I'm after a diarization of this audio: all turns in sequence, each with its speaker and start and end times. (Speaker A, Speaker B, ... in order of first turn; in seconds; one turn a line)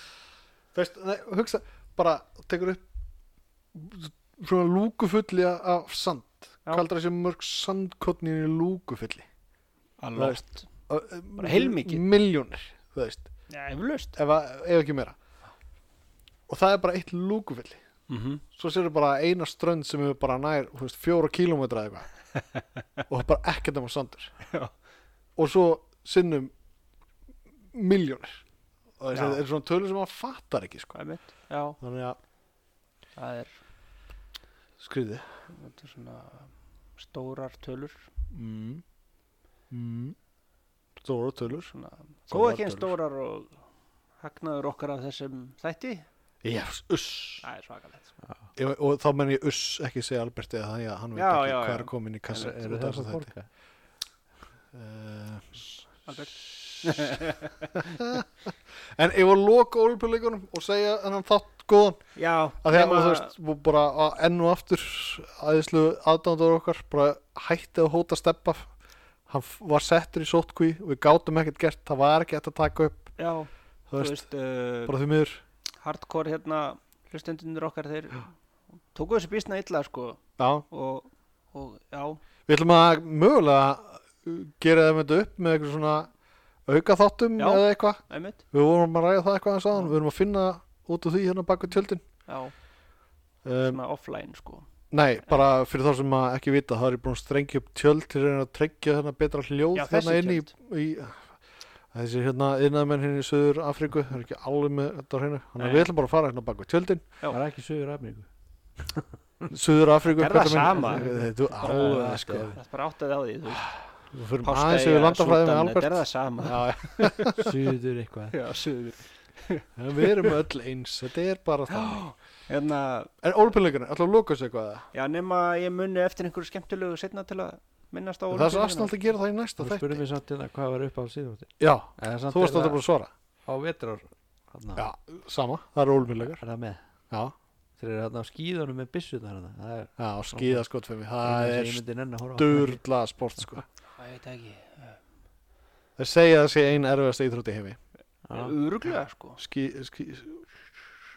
Speaker A: 0.7-2.9
Speaker A: 3.7-9.3
Speaker B: 10.0-10.7
Speaker A: 10.2-13.3
Speaker B: 11.4-12.0
Speaker B: 13.5-14.2
Speaker A: 14.2-15.2
Speaker A: 16.5-17.8
Speaker B: 18.1-18.4
Speaker A: 18.5-22.2
Speaker A: 23.1-24.4
Speaker A: 25.4-26.5
Speaker A: 27.7-28.4
Speaker A: 29.0-31.0
Speaker B: 29.1-29.4
Speaker B: 30.9-31.8
Speaker A: 31.8-32.2
Speaker B: 33.2-33.6
Speaker A: 34.8-35.3
Speaker B: 35.5-38.0
Speaker A: 38.3-38.8
Speaker A: 39.7-40.2
Speaker A: 41.0-41.7
Speaker B: 41.5-43.6
Speaker A: 42.3-43.0
Speaker B: 44.2-46.1
Speaker A: 46.4-47.5
Speaker B: 47.4-48.1
Speaker C: 48.2-48.5
Speaker A: 48.6-53.3
Speaker B: 51.1-52.6
Speaker C: 52.4-53.5
Speaker A: 54.7-55.8
Speaker B: 56.1-57.8
Speaker A: 56.8-57.2
Speaker A: 57.8-62.1
Speaker B: 62.2-63.3
Speaker A: 62.6-68.7
Speaker A: 69.3-73.1
Speaker B: 73.2-75.0
Speaker A: 73.9-74.2
Speaker A: 74.9-75.4
Speaker B: 75.8-78.3
Speaker B: 78.9-82.2
Speaker A: 80.4-80.7
Speaker A: 82.5-86.1
Speaker A: 86.7-92.0
Speaker B: 87.4-88.4
Speaker B: 92.3-92.5
Speaker A: 93.5-93.8
Speaker B: 93.6-94.7
Speaker A: 94.9-101.4
Speaker B: 99.8-100.5
Speaker A: 101.9-107.1
Speaker B: 105.6-105.9
Speaker C: 107.3-108.3
Speaker C: 108.9-109.5
Speaker A: 109.5-112.6
Speaker B: 110.1-111.1
Speaker C: 110.7-112.6
Speaker B: 112.6-113.8
Speaker A: 114.1-117.5
Speaker B: 114.4-117.4
Speaker C: 117.4-118.4
Speaker B: 118.3-120.3
Speaker A: 119.8-122.1
Speaker B: 121.7-123.1
Speaker A: 123.2-124.9
Speaker B: 124.9-128.9
Speaker A: 128.3-130.0
Speaker C: 129.6-132.8
Speaker A: 131.6-133.1
Speaker C: 133.5-134.9
Speaker A: 134.8-136.4
Speaker C: 136.4-136.8
Speaker C: 137.8-140.7
Speaker A: 140.0-141.8
Speaker C: 141.2-142.8
Speaker A: 142.3-143.7
Speaker B: 144.0-145.0
Speaker A: 146.0-147.8
Speaker C: 148.3-148.6
Speaker B: 148.3-149.4
Speaker A: 149.4-150.7